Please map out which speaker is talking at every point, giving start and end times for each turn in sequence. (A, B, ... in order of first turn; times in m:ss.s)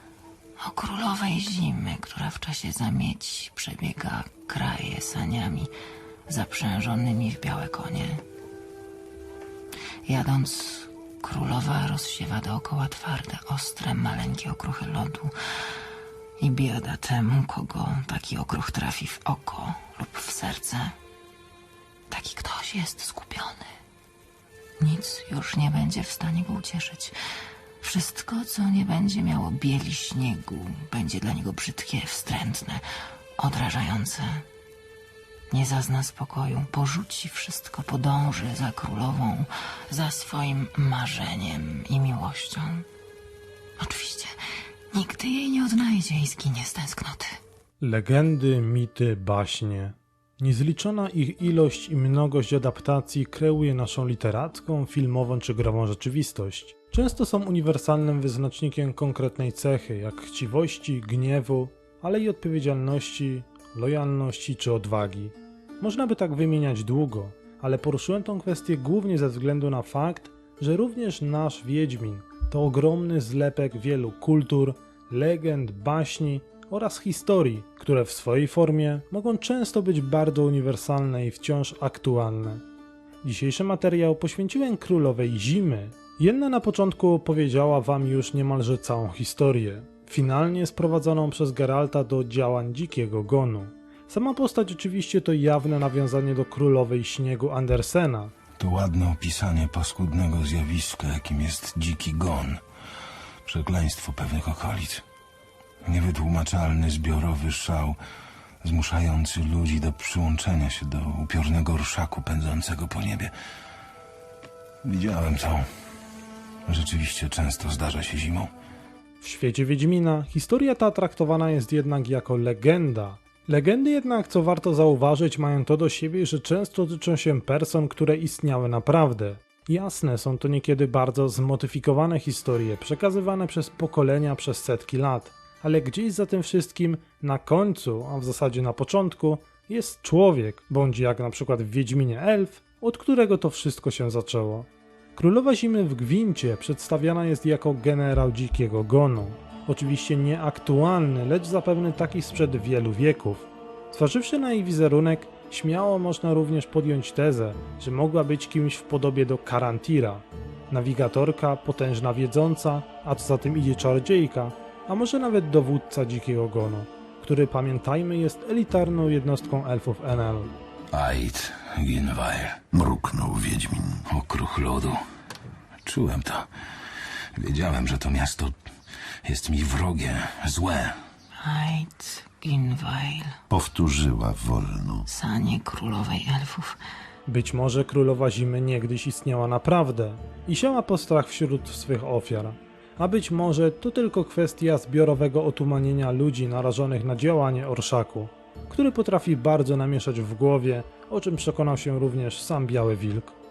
0:00.6-0:05.7 A
0:06.3-0:08.2 A
0:10.1-0:15.4 A
0:16.4-0:21.0 A
0:22.1-0:23.8 A
0:24.8-0:27.2 A
0:27.8-0:32.9 A
0:33.4-0:34.5 A
0:35.5-0:42.9 A
0:43.8-0:44.4 A
0:44.9-0:47.4 A
0:47.8-1:22.6 B
1:23.2-1:38.3 B
1:38.6-1:42.6 C
1:43.4-1:45.0 C
1:45.8-1:48.0 C
1:48.6-1:53.4 C
1:54.8-1:55.7 C
1:56.7-1:58.5 C
1:59.2-2:50.6 B
2:50.9-2:52.6 C
2:52.7-2:54.0 D
2:54.1-2:55.0 C
2:55.8-2:56.5 C
2:57.4-2:58.6 C
2:59.2-3:01.0 C
3:01.4-3:03.4 A
3:03.5-3:05.1 D
3:05.1-3:06.8 A
3:07.3-3:23.4 B